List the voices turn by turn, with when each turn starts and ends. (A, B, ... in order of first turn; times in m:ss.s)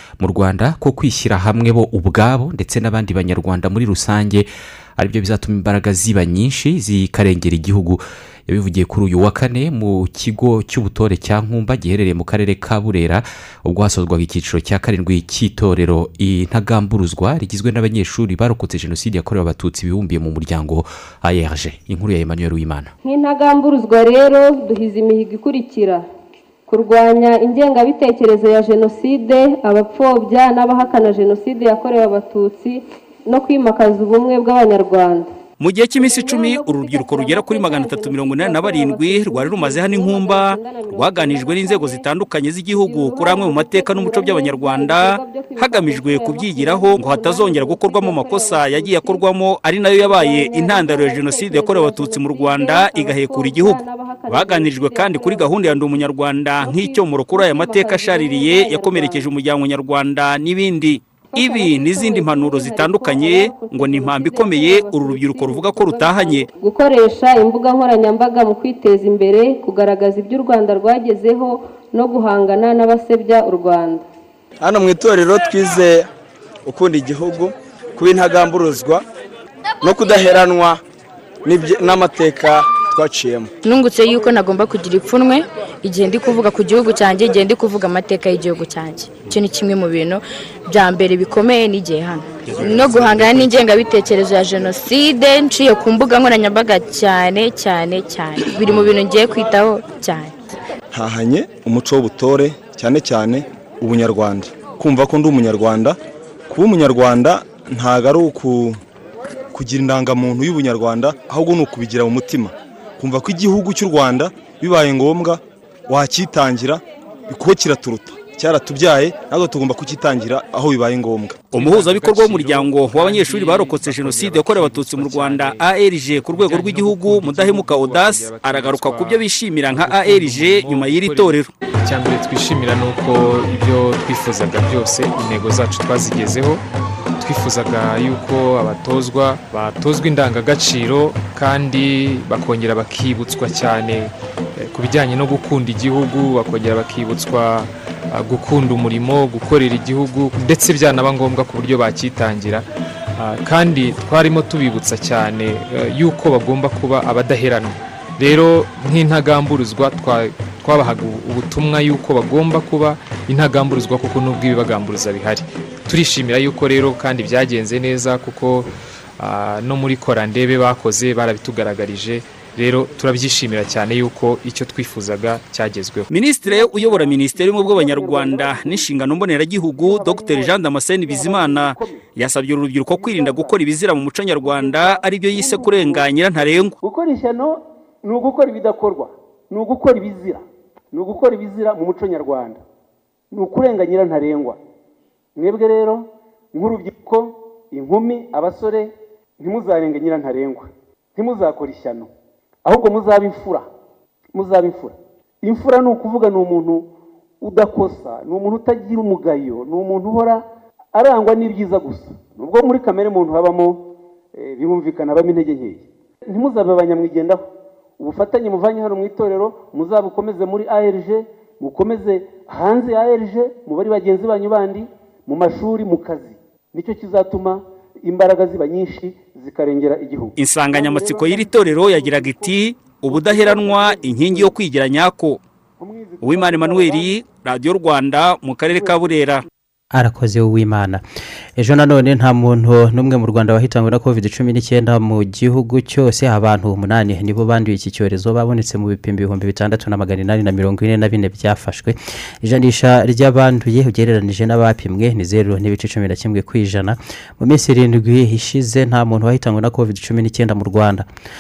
0:00.2-0:22.9 A
0:23.0-0:26.0 B
0:26.7-0:35.3 B
0:35.6-0:53.8 C
0:36.0-0:42.0 B
0:42.8-0:49.2 B
0:49.8-0:56.0 B
0:54.3-1:06.4 C
0:56.6-0:59.3 B
1:01.3-1:14.0 B
1:14.6-1:16.1 D
1:16.6-1:19.0 D
1:19.8-1:20.8 D
1:21.4-1:23.5 D
1:23.6-1:40.3 E
1:40.9-1:46.0 F
1:46.5-1:48.8 F
1:49.5-2:01.5 F
2:01.5-2:11.5 C
2:01.5-2:16.6 G
2:17.2-2:32.6 G
2:33.2-2:56.1 G
2:56.1-3:06.7 C
2:56.5-2:58.9 H
2:59.8-3:02.0 H
3:02.9-3:03.5 H
3:04.4-3:06.1 H
3:06.8-3:12.6 H
3:13.3-3:14.6 H
3:15.4-3:22.1 H
3:22.6-3:23.7 H
3:24.3-3:26.9 H
3:27.4-3:30.4 H
3:30.9-3:37.4 H
3:38.0-3:54.5 H
3:50.4-3:55.4 C
3:55.8-3:57.2 H
3:56.2-3:59.4 C
3:58.7-3:59.1 H
3:59.9-4:01.0 I
4:01.6-4:21.0 I